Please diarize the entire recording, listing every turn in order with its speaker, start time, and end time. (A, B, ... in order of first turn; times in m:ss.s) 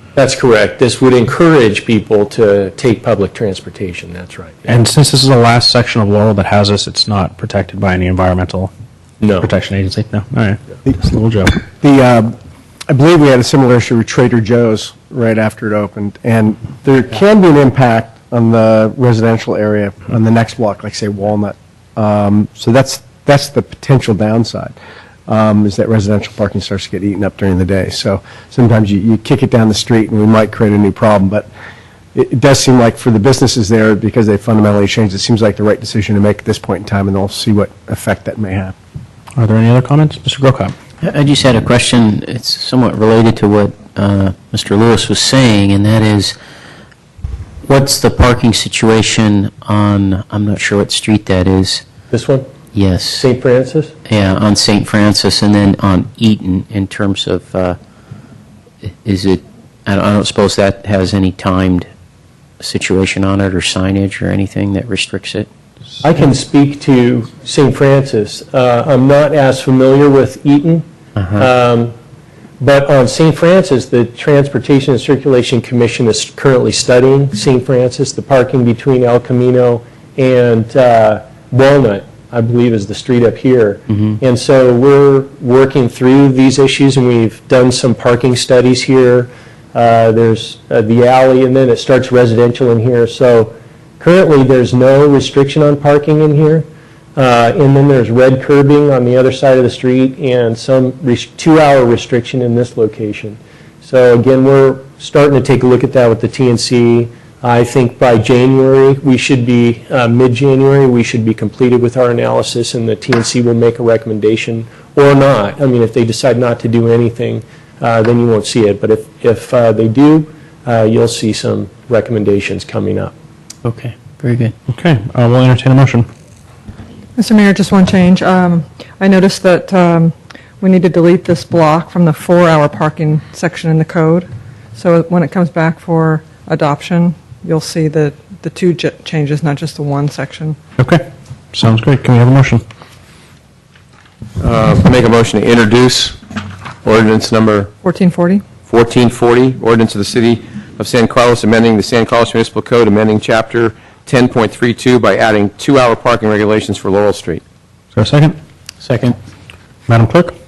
0:00.2-0:04.6 A
0:04.6-0:08.7 B
0:09.2-0:09.5 A
0:09.4-0:11.6 B
0:11.8-0:12.4 C
0:12.9-0:24.8 C
0:25.3-0:31.5 C
0:32.1-0:38.7 C
0:39.4-0:40.7 B
0:41.0-0:46.3 D
0:47.6-0:51.8 D
0:52.1-0:52.5 A
0:52.7-0:53.2 D
0:53.1-0:53.9 A
0:54.0-0:57.8 D
0:58.9-1:01.9 D
1:02.6-1:05.5 D
1:06.0-1:11.9 A
1:12.6-2:03.1 A
2:03.6-2:04.5 D
2:04.7-2:06.1 B
2:07.2-2:20.6 E
2:20.8-2:22.6 B
2:24.4-2:26.2 F
2:26.8-2:27.7 F
2:27.8-2:28.4 E
2:28.7-2:37.4 F
2:37.9-2:38.4 B
2:39.9-2:40.3 B